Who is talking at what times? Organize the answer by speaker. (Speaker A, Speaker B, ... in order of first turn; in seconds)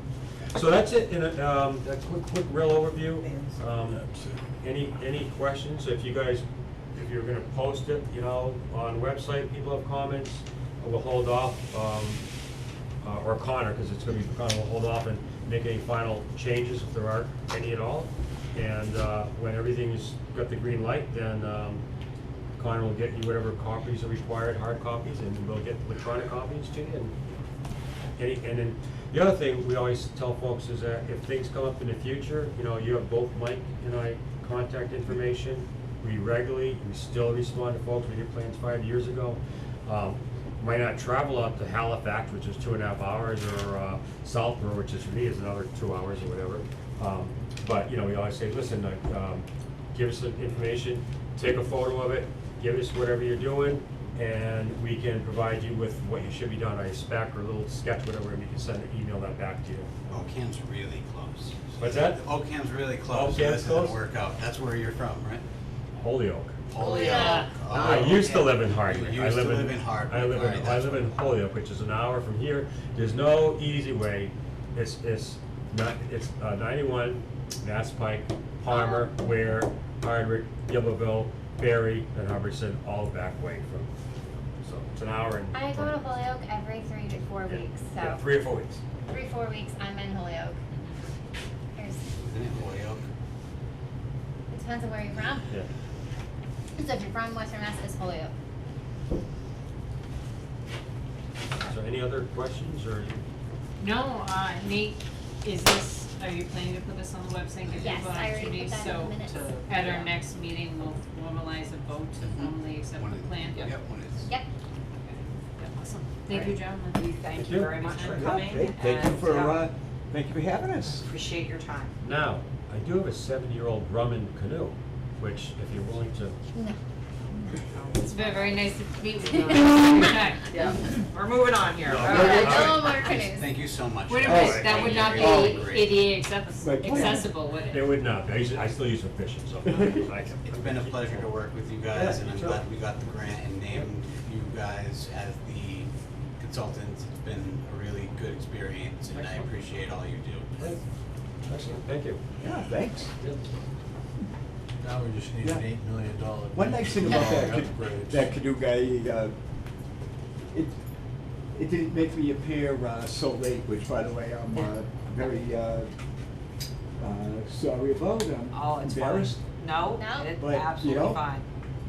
Speaker A: 0.5-4.0, 4.6-12.2, 13.0-21.8, 22.6-27.2, 28.2-60.3, 61.8-62.3, 63.1-64.0, 66.0-66.6, 67.7-83.9, 84.6-86.0, 87.5-88.8, 101.6-103.2, 117.3-117.8, 122.0-126.4, 131.9-132.9, 134.3-135.0, 137.7-141.3, 141.9-142.6, 149.1-149.5, 151.5-152.2
Speaker B: 3.2-3.6, 109.3-110.1, 116.3-119.6, 121.0-122.0, 127.7-128.6, 130.5-132.4, 168.5-171.5
Speaker C: 4.0-4.4, 154.8-158.3
Speaker D: 60.1-65.4, 66.7-71.1, 92.2-93.0, 112.2-114.3, 132.4-136.0, 140.5-150.7
Speaker E: 66.8-67.5, 78.7-79.2, 85.5-88.2, 89.1-90.6, 91.8-92.0, 94.5-95.5, 96.8-98.3, 107.7-109.5, 128.1-128.4, 129.3-130.1, 132.0-133.6, 170.0-170.4
Speaker F: 67.1-67.5, 103.8-113.8, 115.0-117.0, 117.9-118.3, 128.0-130.5, 132.2-132.5, 134.1-138.0
Speaker G: 117.9-121.0, 134.2-135.7, 136.6-137.3, 139.7-140.0, 152.4-153.1, 156.5-159.3, 161.5-165.9, 167.0-169.4, 170.4-171.3